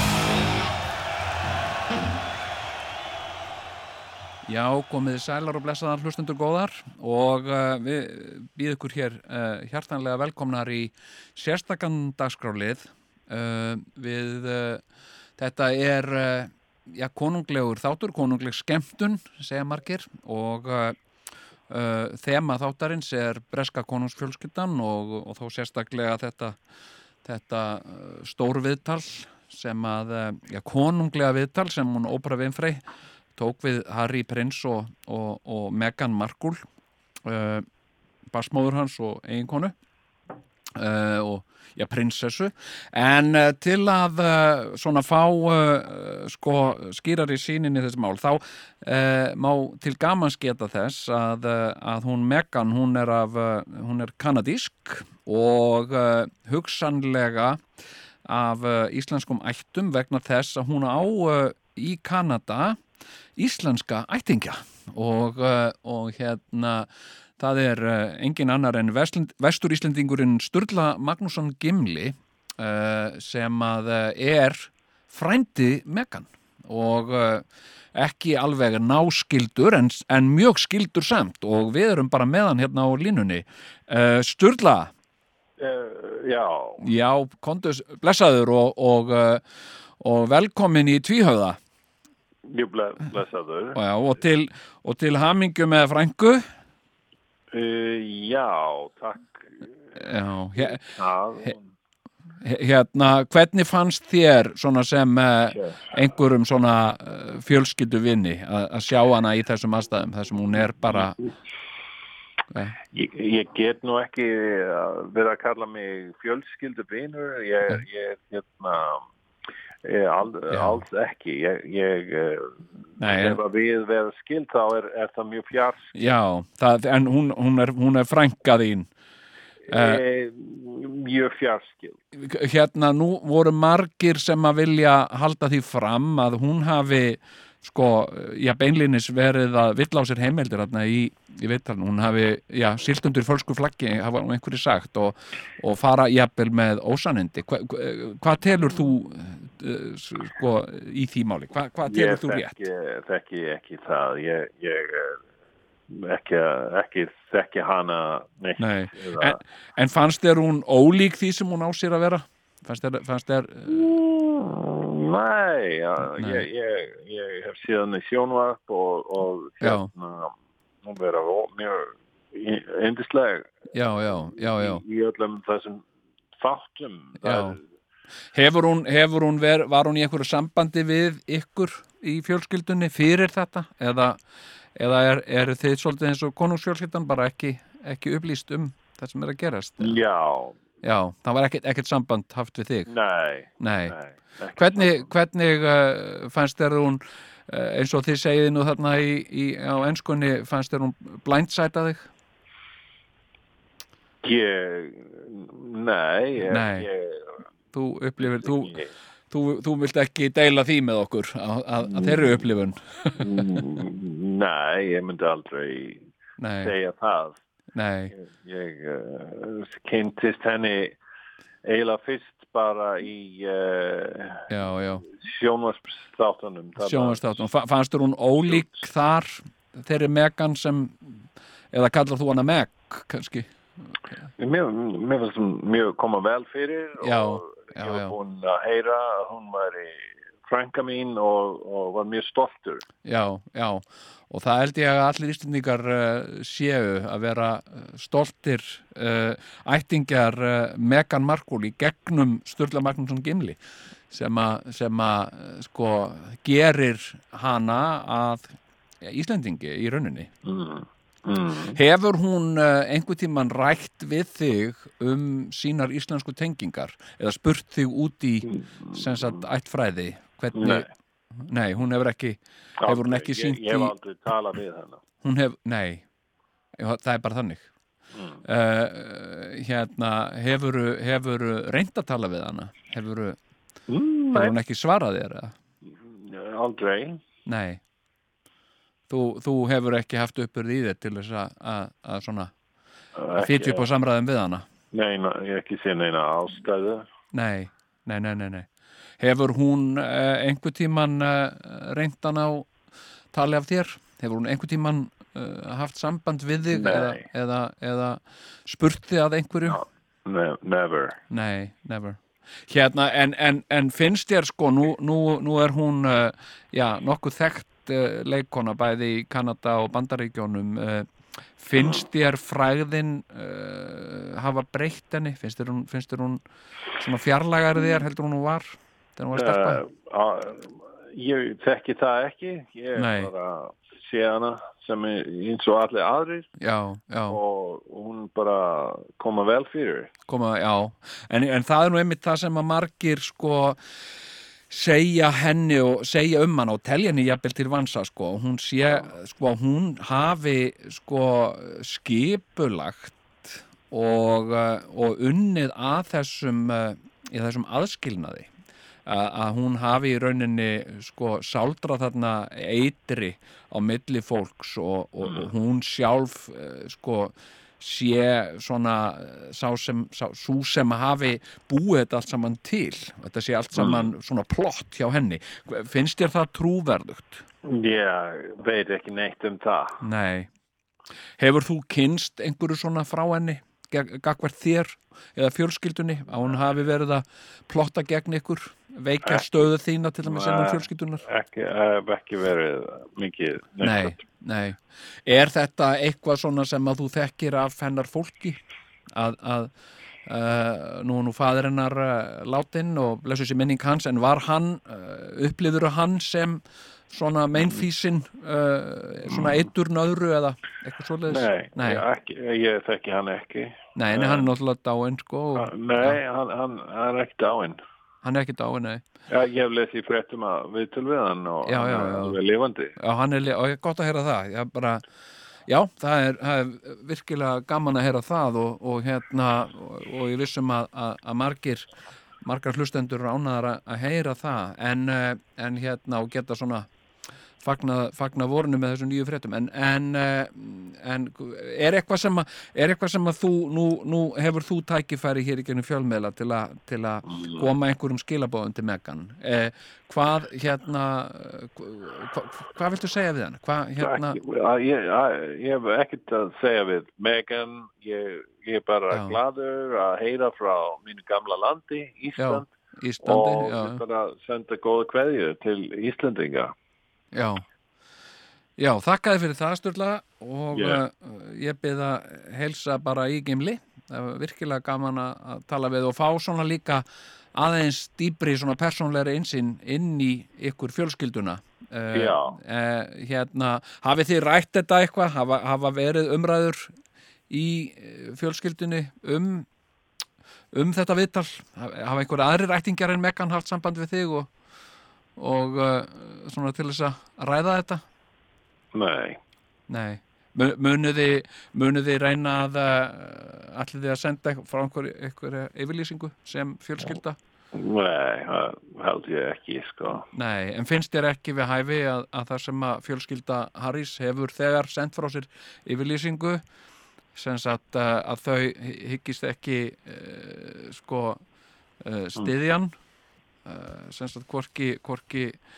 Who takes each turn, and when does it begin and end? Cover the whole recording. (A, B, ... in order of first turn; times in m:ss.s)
0:04.4-0:14.8 A
0:15.4-0:21.0 A
0:21.7-0:26.6 A
0:27.2-0:32.8 A
0:33.4-0:36.6 A
0:37.2-0:37.7 A
0:38.3-0:39.7 A
0:40.7-0:57.6 A
0:58.2-1:02.8 A
1:03.4-1:24.9 A
1:25.6-1:26.8 B
1:26.8-1:29.4 A
1:30.0-1:31.6 A
1:32.5-1:33.8 B
1:33.7-1:36.4 A
1:37.5-1:39.6 B
1:40.0-1:41.6 A
1:40.6-1:41.6 B
1:42.4-1:51.2 A
1:45.5-1:45.8 B
1:52.9-1:59.0 B
1:59.8-2:05.9 B
2:00.5-2:00.8 A
2:03.0-2:03.4 A
2:05.9-2:08.9 A
2:09.7-2:12.0 B
2:09.7-2:10.0 A
2:12.2-2:32.6 A
2:31.8-2:35.2 B
2:35.9-2:39.4 B
2:38.6-2:43.9 A
2:43.7-2:53.6 B
2:46.1-2:46.5 A
2:49.6-2:49.9 A
2:53.7-2:54.8 A
2:54.3-2:55.8 B
2:56.4-2:57.6 B
2:57.2-2:57.6 A
2:58.3-3:04.2 A
3:04.8-3:10.0 A
3:09.8-3:10.6 B
3:10.8-3:12.9 A
3:12.9-3:15.1 B
3:13.6-3:14.0 A
3:14.6-3:22.1 A
3:24.2-3:27.3 B
3:26.5-3:26.9 A
3:27.7-3:28.8 A
3:28.2-3:28.9 B
3:29.3-3:33.6 A
3:31.9-3:32.4 B
3:33.2-3:36.0 B
3:36.4-3:36.7 A
3:36.6-3:37.4 B
3:37.7-3:38.1 A
3:38.1-3:41.0 B
3:41.6-3:44.5 B
3:44.5-3:45.0 A
3:45.0-3:47.3 B
3:46.8-3:53.5 A
3:54.4-4:02.8 B
3:57.0-3:58.2 A
4:03.0-4:13.6 A
4:14.1-4:20.3 A
4:20.4-4:21.8 B
4:21.7-4:30.9 A
4:30.5-4:30.8 B
4:31.4-4:33.9 A
4:32.8-4:35.0 B
4:35.2-4:36.0 A
4:36.8-4:37.7 A
4:38.1-4:38.4 B
4:38.4-4:43.4 A
4:43.9-4:44.5 B
4:44.3-4:45.5 A
4:45.9-4:47.2 B
4:47.4-4:47.8 A
4:49.1-4:52.5 A
4:53.2-4:53.9 B
4:53.4-4:54.6 A
4:54.9-4:57.0 B
4:57.3-4:58.7 A
4:59.2-5:02.7 A
5:03.3-5:09.8 A
5:06.7-5:07.2 B
5:09.7-5:11.2 B
5:11.3-5:26.4 A
5:27.0-5:29.8 A
5:29.3-5:36.5 B
5:33.0-5:33.3 A
5:36.6-5:37.4 A
5:37.3-5:40.1 B
5:40.3-5:43.8 A
5:44.7-5:58.5 A
5:59.0-6:17.4 A
6:13.8-6:14.0 B
6:17.6-6:20.0 B
6:20.0-6:20.5 A
6:21.4-6:31.2 A
6:30.2-6:34.2 B
6:33.8-6:38.6 A
6:39.1-6:39.7 A
6:40.2-6:52.0 A
6:51.3-6:54.5 B
6:54.0-6:56.2 A
6:55.6-6:57.8 B
6:58.2-6:59.0 A
6:59.3-7:02.9 B
7:01.6-7:02.4 A
7:03.0-7:05.0 A
7:05.7-7:11.9 A
7:12.4-7:16.9 A
7:17.6-7:34.4 A
7:27.3-7:27.6 B
7:34.0-7:42.7 B
7:39.1-7:39.4 A
7:42.4-7:44.0 A
7:43.2-7:46.7 B
7:47.3-7:47.6 A
7:48.8-8:06.9 A
7:50.7-7:51.0 B
8:02.1-8:02.6 B
8:07.5-8:09.6 A
8:10.7-8:14.5 A
8:15.4-8:18.0 A
8:18.9-8:19.4 B
8:19.9-8:27.4 A
8:27.7-8:30.2 B
8:30.3-8:36.6 A
8:37.3-8:41.4 A
8:42.0-8:42.9 A
8:43.6-8:45.6 A